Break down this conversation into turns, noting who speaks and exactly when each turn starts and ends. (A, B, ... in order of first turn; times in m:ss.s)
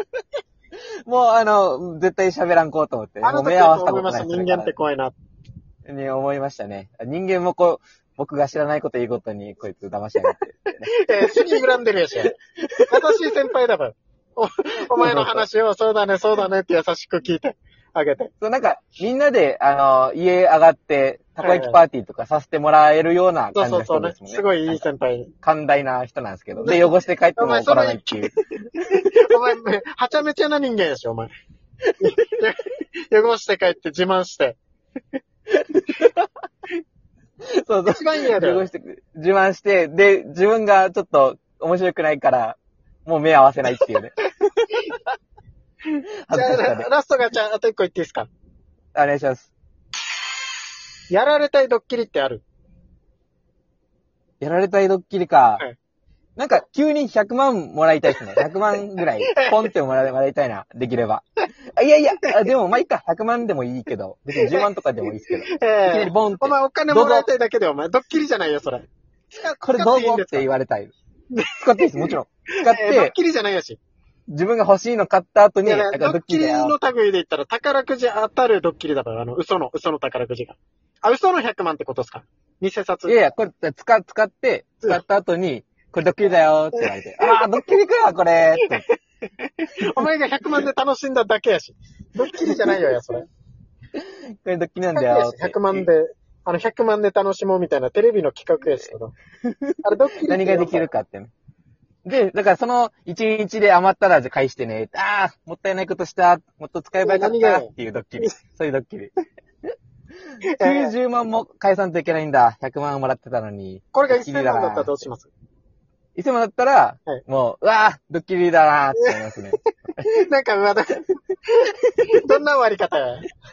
0:01.1-0:04.7 A
0:03.2-0:05.1 B
0:05.9-0:11.6 A
0:10.9-0:12.4 B
0:12.7-0:13.3 A
0:12.9-0:18.3 B
0:15.0-0:15.5 A
0:18.4-0:24.8 A
0:21.4-0:21.8 B
0:23.6-0:25.3 B
0:25.4-0:28.3 A
0:26.6-0:31.3 B
0:32.0-0:34.6 B
0:35.5-0:36.3 A
0:37.5-0:44.2 A
0:37.9-0:38.7 B
0:45.9-0:46.9 A
0:46.3-0:48.3 B
0:49.0-0:49.5 A
0:51.1-0:52.4 B
0:54.4-0:55.6 A
0:56.4-1:01.3 A
0:59.3-0:59.7 B
1:01.8-1:07.3 A
1:05.3-1:10.5 B
1:09.6-1:10.9 A
1:11.3-1:13.8 B
1:11.5-1:13.1 A
1:14.3-1:16.8 A
1:15.6-1:23.2 B
1:23.1-1:28.9 A
1:26.8-1:27.4 B
1:29.8-1:33.3 B
1:32.4-1:32.8 A
1:34.0-1:35.9 A
1:34.9-1:39.1 B
1:39.4-1:41.3 A
1:39.8-1:40.9 B
1:42.0-1:49.1 A
1:47.0-1:48.4 B
1:50.4-1:51.0 B
1:50.6-1:54.9 A
1:53.9-1:55.3 B
1:56.2-1:59.6 A
2:00.0-2:03.3 B